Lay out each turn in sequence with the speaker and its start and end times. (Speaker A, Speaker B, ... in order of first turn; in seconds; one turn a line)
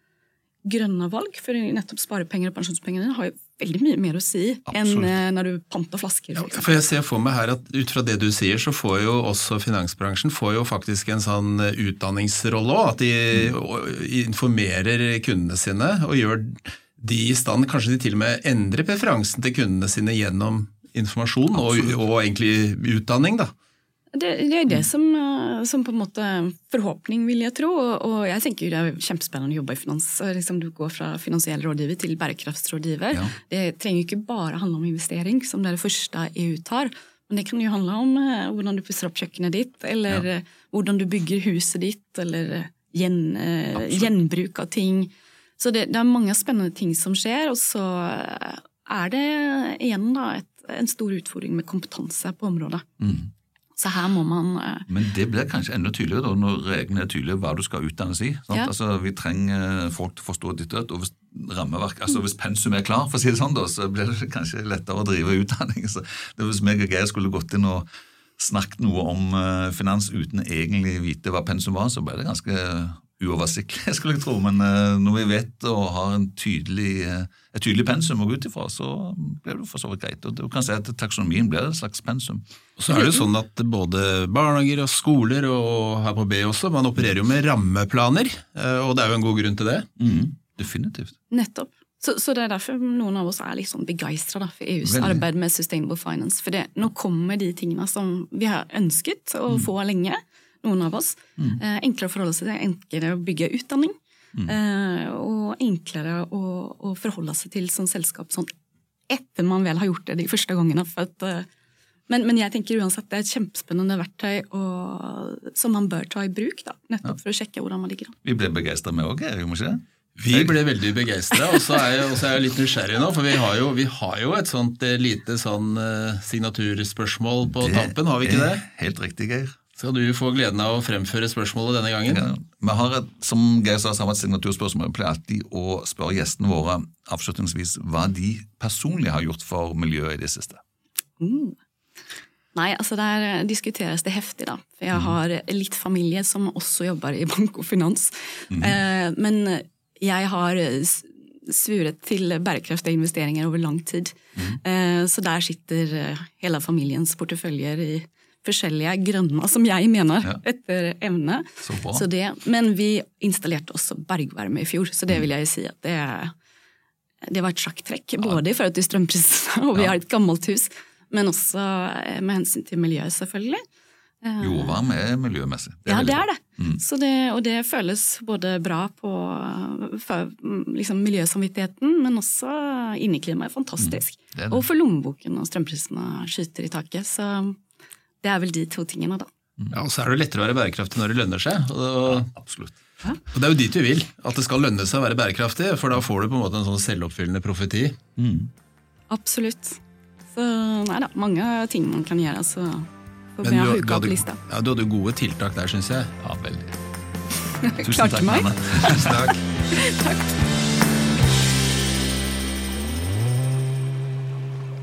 Speaker A: 0.6-6.8
Speaker B: 4.7-5.1
Speaker C: 6.4-23.5
Speaker A: 24.1-52.9
Speaker B: 43.8-44.1
Speaker B: 53.0-53.3
Speaker A: 53.8-54.9
Speaker B: 54.9-67.9
Speaker B: 68.4-82.4
Speaker C: 82.8-89.9
Speaker A: 82.9-83.2
Speaker B: 90.0-91.2
Speaker A: 91.3-108.5
Speaker B: 94.8-95.2
Speaker A: 109.1-111.5
Speaker A: 112.1-118.2
Speaker B: 118.2-120.6
Speaker C: 120.2-128.6
Speaker B: 127.5-129.6
Speaker C: 129.8-132.2
Speaker B: 132.1-140.6
Speaker A: 141.2-141.6
Speaker A: 142.5-166.3
Speaker B: 161.6-162.0
Speaker A: 167.2-173.6
Speaker A: 174.2-174.8
Speaker B: 174.4-176.8
Speaker A: 175.9-187.6
Speaker B: 183.8-184.6
Speaker A: 188.2-189.3
Speaker C: 189.7-192.3
Speaker B: 192.1-192.8
Speaker C: 193.3-198.0
Speaker B: 198.2-198.5
Speaker A: 199.1-199.8
Speaker A: 200.3-204.4
Speaker C: 203.4-206.1
Speaker B: 206.2-206.8
Speaker A: 207.6-210.4
Speaker B: 207.8-209.2
Speaker C: 209.0-209.4